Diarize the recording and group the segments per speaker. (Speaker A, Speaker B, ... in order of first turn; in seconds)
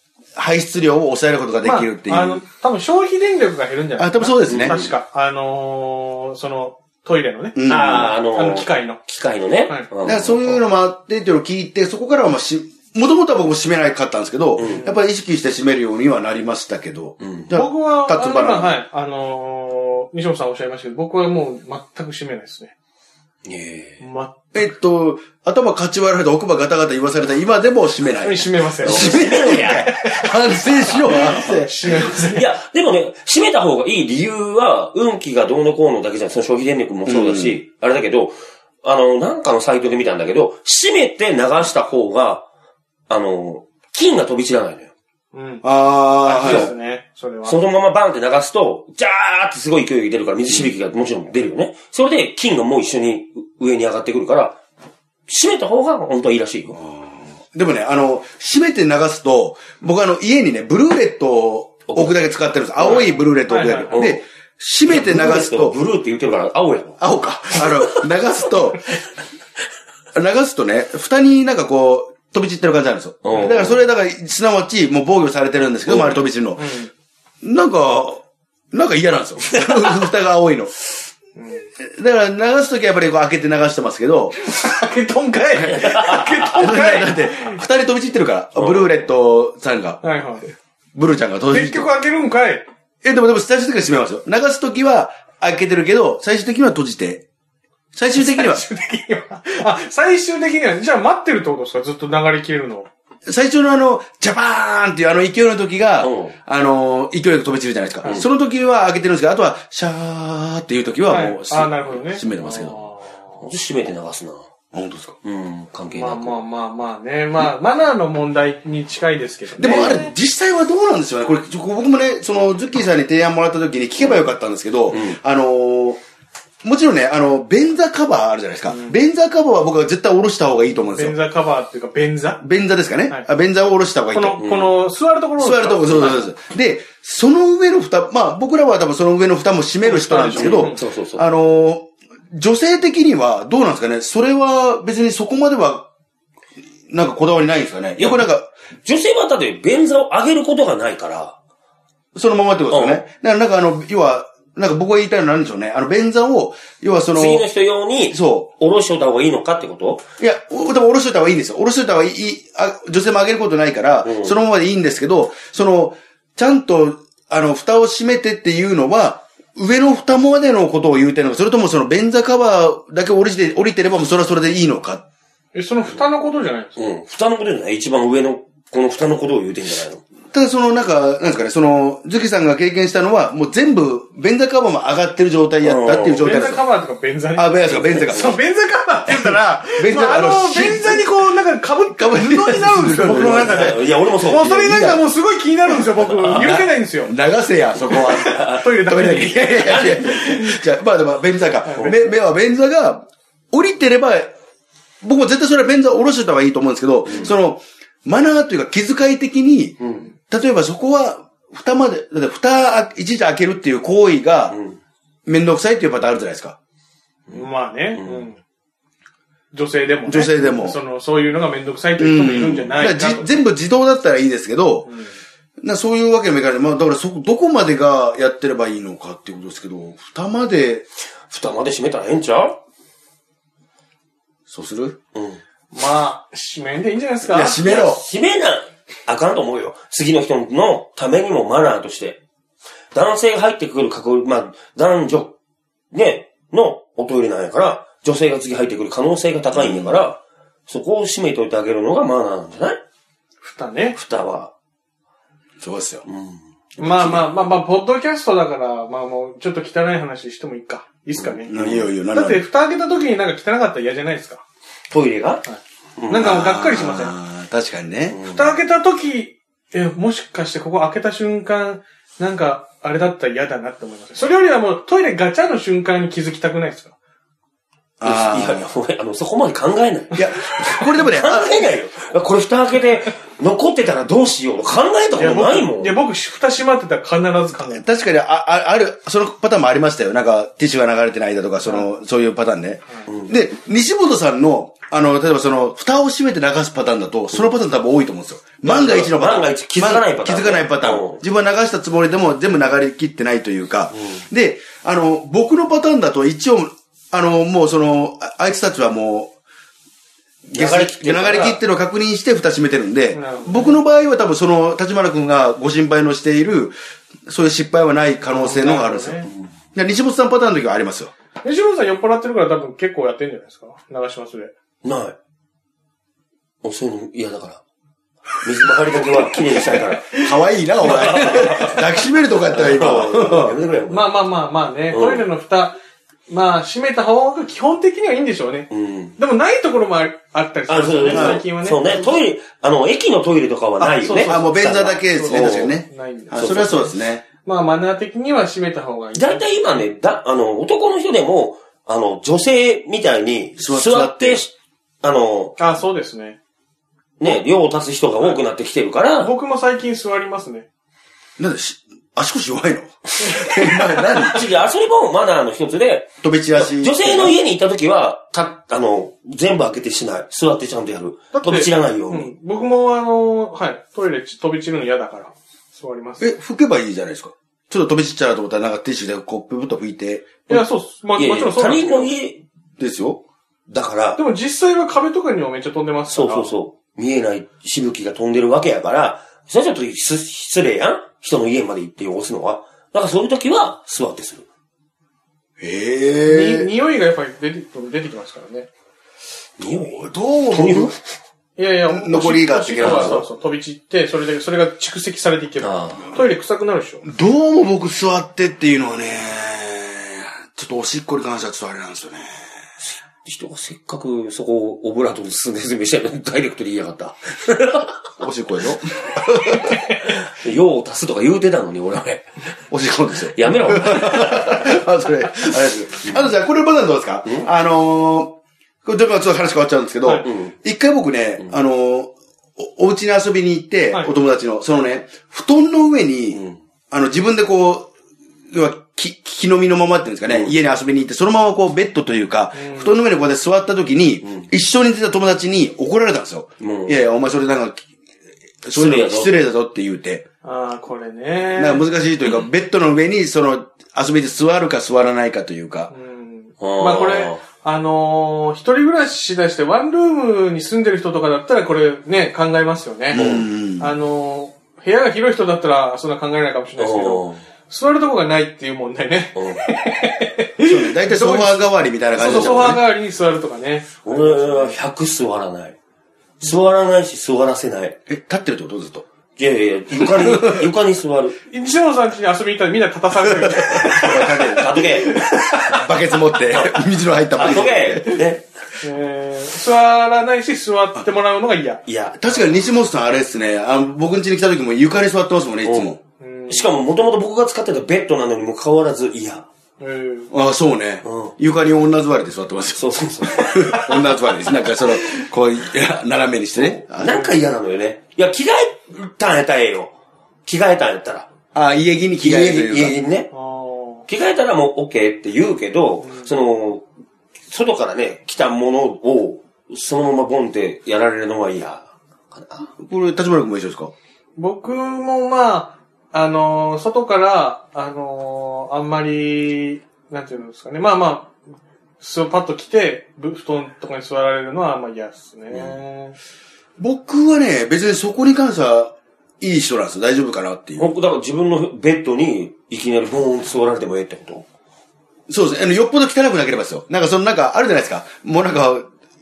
Speaker A: 0.3-2.4, 4.0-4.8, 7.5-8.1, 10.0-18.8, 24.5-31.7, 37.0-37.6, 45.6-46.7, 56.7-65.8, 67.0-68.8, 70.1-76.7, 77.4-80.7, 81.8-84.4, 85.5-90.0, 90.9-91.9, 93.0-97.2, 97.9-98.6, 103.2-112.8, 114.7-115.2, 119.6-126.0, 126.6-131.2, 132.4-134.4, 135.4-145.9, 146.9-148.5, 152.1-157.4, 158.1-158.5, 160.2-175.0, 180.3-186.6, 187.3-188.3, 189.3-191.1, 191.9-195.1, 196.2-204.3, 205.0-214.6, 215.2-216.6, 220.1-220.8, 222.0-224.9, 225.6-230.8, 234.5-234.9, 237.3-238.0, 249.5-250.0, 255.6-256.1, 261.5-262.4, 266.1-268.2, 278.0-278.7, 280.1-281.7, 287.6-309.3, 310.5-316.7, 317.3-321.1, 330.1-333.6, 341.1-341.4, 343.8-347.2, 353.6-354.4, 361.4-364.4, 366.2-367.4, 376.2-380.6, 382.8-383.2, 395.6-396.7, 399.6-400.9, 401.9-403.2, 407.0-412.4, 418.2-419.8, 422.7-437.9, 438.5-447.9, 448.6-450.2, 451.6-455.9, 463.1-463.9, 470.6-472.8, 478.1-479.1, 480.0-480.7, 483.2-488.2, 492.1-496.0, 500.3-507.4, 511.5-513.0, 522.8-523.9, 536.8-540.9, 545.3-548.9
Speaker B: 1.6-9.0, 14.6-15.0, 17.5-22.7, 24.0-24.4, 28.2-32.5, 45.3-45.6, 46.2-47.7, 62.8-64.1, 76.6-76.9, 81.3-81.6, 84.4-87.6, 90.0-90.5, 91.5-92.7, 98.1-102.9, 111.1-113.4, 115.9-120.1, 128.7-129.0, 130.9-132.4, 134.1-136.3, 139.8-140.8, 175.5-176.9, 186.2-197.1, 197.9-200.6, 201.7-202.0, 217.3-218.4, 219.5-223.3, 224.8-225.2, 235.7-237.8, 253.4-254.0, 256.8-264.4, 265.4-267.1, 268.2-276.9, 285.1-287.9, 291.6-291.9, 313.1-313.8, 318.2-319.3, 321.4-324.5, 329.6-330.4, 330.9-331.7, 333.9-342.1, 344.0-349.5, 355.6-356.4, 359.2-360.6, 371.3-376.3, 380.5-382.1, 384.2-386.6, 396.2-398.7, 401.6-407.0, 442.5-443.0, 450.4-451.8, 455.9-463.2, 463.8-474.8, 481.5-485.3, 488.8-492.6, 496.2-496.8, 499.8-500.3, 507.0-507.4, 513.3-514.1, 516.0-516.3, 524.4-531.3, 532.0-536.2
Speaker C: 4.5-4.9, 7.7-10.6, 14.6-14.8, 17.2-17.5, 23.4-24.0, 28.8-30.0, 32.0-42.4, 43.1-44.9, 46.4-46.7, 47.4-54.6, 55.3-56.8, 61.9-63.1, 63.9-64.2, 64.9-68.0, 73.2-73.8, 75.8-76.2, 88.5-89.0, 106.0-106.3, 113.4-114.4, 115.2-116.4, 119.7-120.0, 124.9-125.2, 134.4-134.7, 140.4-141.2, 148.0-148.2, 148.8-151.3, 152.7-153.0, 157.1-160.0, 164.0-164.4, 176.8-180.0, 185.6-186.4, 187.7-188.4, 193.0-194.5, 196.0-196.4, 197.9-198.7, 199.6-200.2, 209.8-210.1, 214.5-214.8, 217.3-218.3, 231.3-232.6, 235.1-235.4, 237.6-242.2, 242.9-245.3, 245.9-252.8, 253.9-254.5, 256.1-257.2, 261.2-261.9, 264.9-265.4, 266.0-266.4, 268.1-268.6, 278.0-280.2, 280.8-286.0, 293.1-293.3, 298.6-301.2, 303.9-304.2, 310.5-311.6, 319.2-319.5, 324.8-325.1, 326.6-327.6, 328.4-330.1, 330.8-331.8, 332.5-334.1, 334.9-335.2, 338.7-339.1, 340.7-345.8, 346.4-346.8, 349.1-355.6, 357.2-359.3, 363.3-372.3, 381.1-382.4, 383.7-384.2, 386.1-394.4, 399.6-401.0, 402.8-403.2, 405.6-406.1, 412.8-417.9, 419.7-422.3, 423.3-424.8, 426.0-426.3, 430.2-430.5, 436.3-436.6, 440.3-440.5, 444.2-444.5, 446.6-447.1, 448.7-449.3, 456.6-457.4, 463.1-463.4, 466.8-467.4, 469.3-469.7, 472.2-472.8, 474.0-475.8, 476.4-477.9, 479.4-481.4, 484.4-485.2, 487.3-488.4, 491.9-492.1, 495.6-495.9, 496.5-499.4, 501.0-501.3, 502.7-504.2, 506.5-509.9, 510.4-511.3, 512.2-513.3, 514.1-516.8, 517.5-522.7, 540.8-544.4